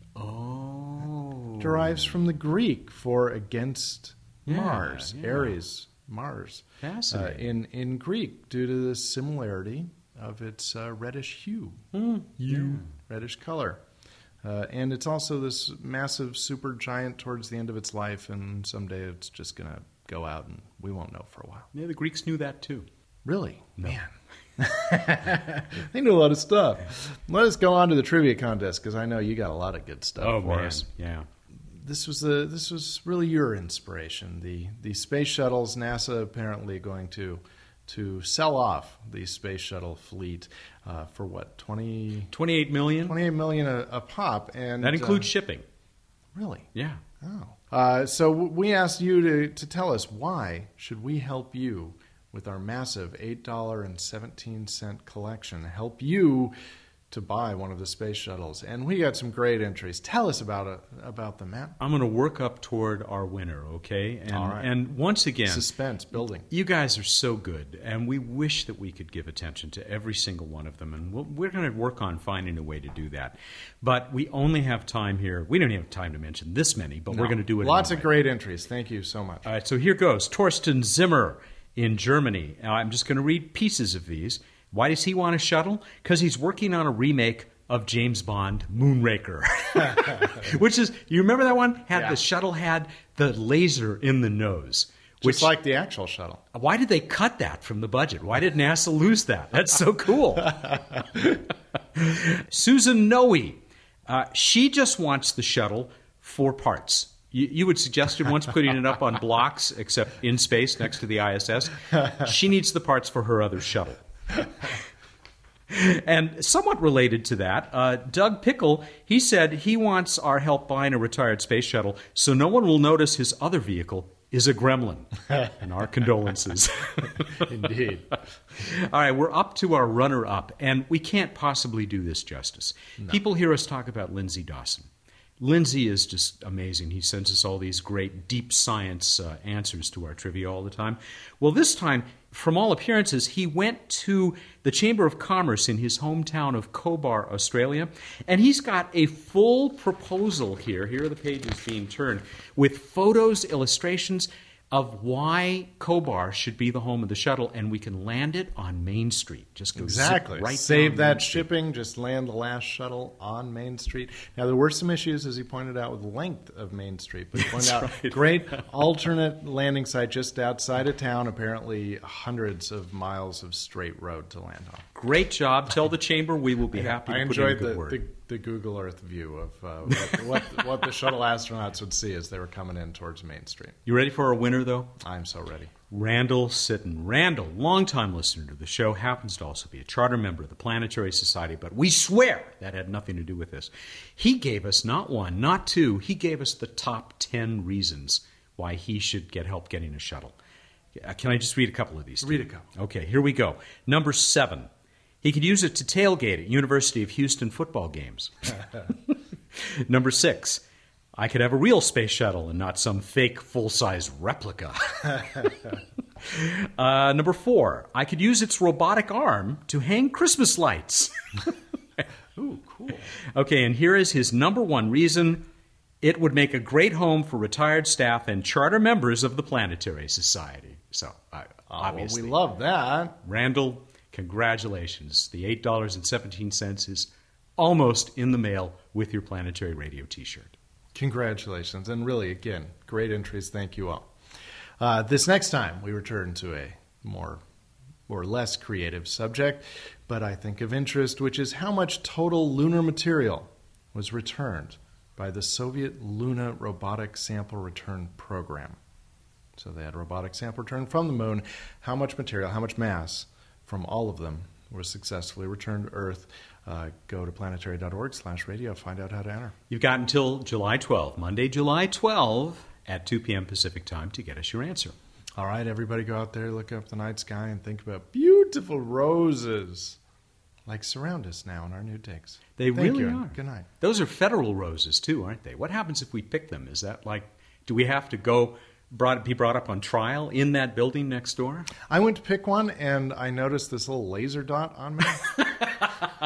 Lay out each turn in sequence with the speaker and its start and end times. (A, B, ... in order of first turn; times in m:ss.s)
0:00.2-0:02.1 A
0:01.6-0:11.8 B
0:04.5-0:05.6 A
0:06.8-0:07.5 A
0:11.9-0:12.9 A
0:12.4-0:13.8 B
0:14.4-0:21.7 B
0:21.7-0:22.9 A
0:23.2-0:30.9 B
0:30.2-0:31.3 A
0:31.7-0:42.3 B
0:42.3-0:43.2 A
0:43.0-0:45.3 B
0:44.8-0:45.6 A
0:46.3-0:46.7 B
0:46.7-0:47.0 A
0:47.2-0:56.5 B
0:57.1-1:01.8 B
1:01.8-1:05.6 A
1:04.3-1:04.7 B
1:05.4-1:06.5 B
1:06.4-1:18.1 A
1:17.1-1:19.4 B
1:19.4-1:35.5 A
1:35.2-1:36.4 B
1:36.5-1:40.8 A
1:42.0-1:54.8 A
1:55.7-2:07.4 A
2:07.3-2:08.1 B
2:08.6-2:14.9 A
2:15.4-2:41.5 A
2:39.7-2:54.8 B
2:47.4-2:48.6 A
2:54.9-2:58.0 A
2:56.7-3:03.8 B
3:03.8-3:04.9 A
3:05.0-3:05.7 B
3:05.9-3:20.3 A
3:20.9-3:24.7 A
3:22.2-3:22.6 B
3:25.2-3:30.6 A
3:31.2-3:35.7 A
3:36.2-3:41.1 A
3:42.4-3:43.0 B
3:43.3-3:45.4 A
3:46.0-3:52.4 A
3:51.7-3:53.2 B
3:53.2-4:00.6 A
4:00.9-4:04.1 B
4:04.8-4:07.4 B
4:08.1-4:18.8 B
4:19.6-4:29.5 B
4:29.7-4:34.9 A
4:35.4-4:40.0 B
4:40.7-4:43.7 B
4:42.6-4:51.7 A
4:51.9-4:55.5 B
4:55.4-4:56.1 A